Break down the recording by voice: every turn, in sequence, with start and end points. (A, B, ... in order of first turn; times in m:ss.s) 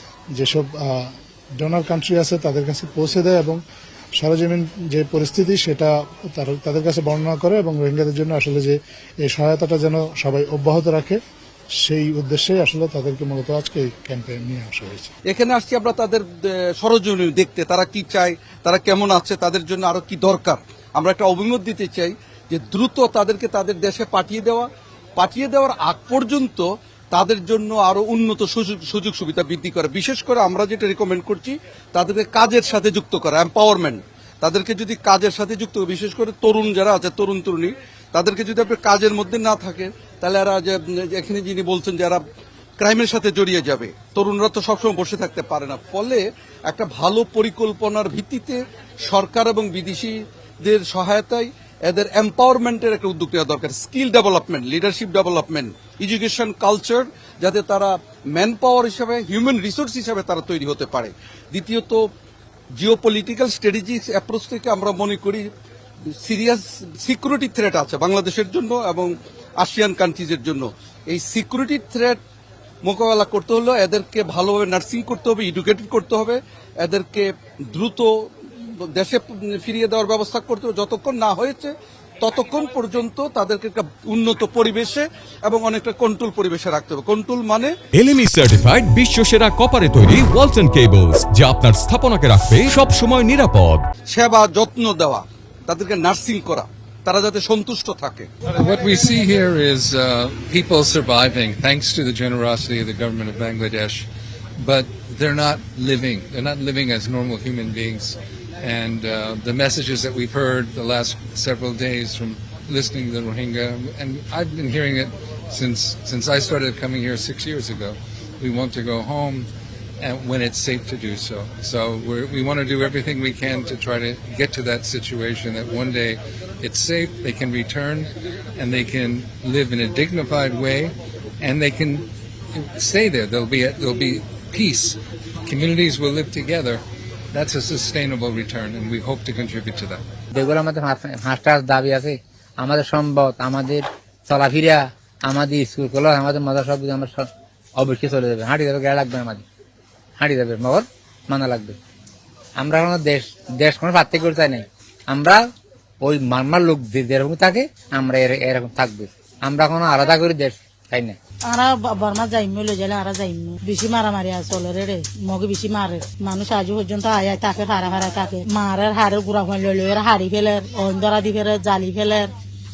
0:00.3-0:03.6 A
0:04.2-0:11.2 A
0:11.8-0:15.1 A
0:15.3-0:42.2 B
0:42.8-1:02.0 B
1:02.8-1:05.4 B
1:06.2-1:12.2 B
1:12.8-1:18.1 B
1:18.9-1:27.7 B
1:27.9-1:33.8 C
1:34.1-1:38.3 B
1:38.5-1:44.1 D
1:44.6-1:59.5 D
2:00.0-2:20.0 D
2:20.3-2:29.4 E
2:30.2-2:31.8 E
2:32.6-2:35.4 E
2:36.0-2:41.2 E
2:41.4-2:52.3 F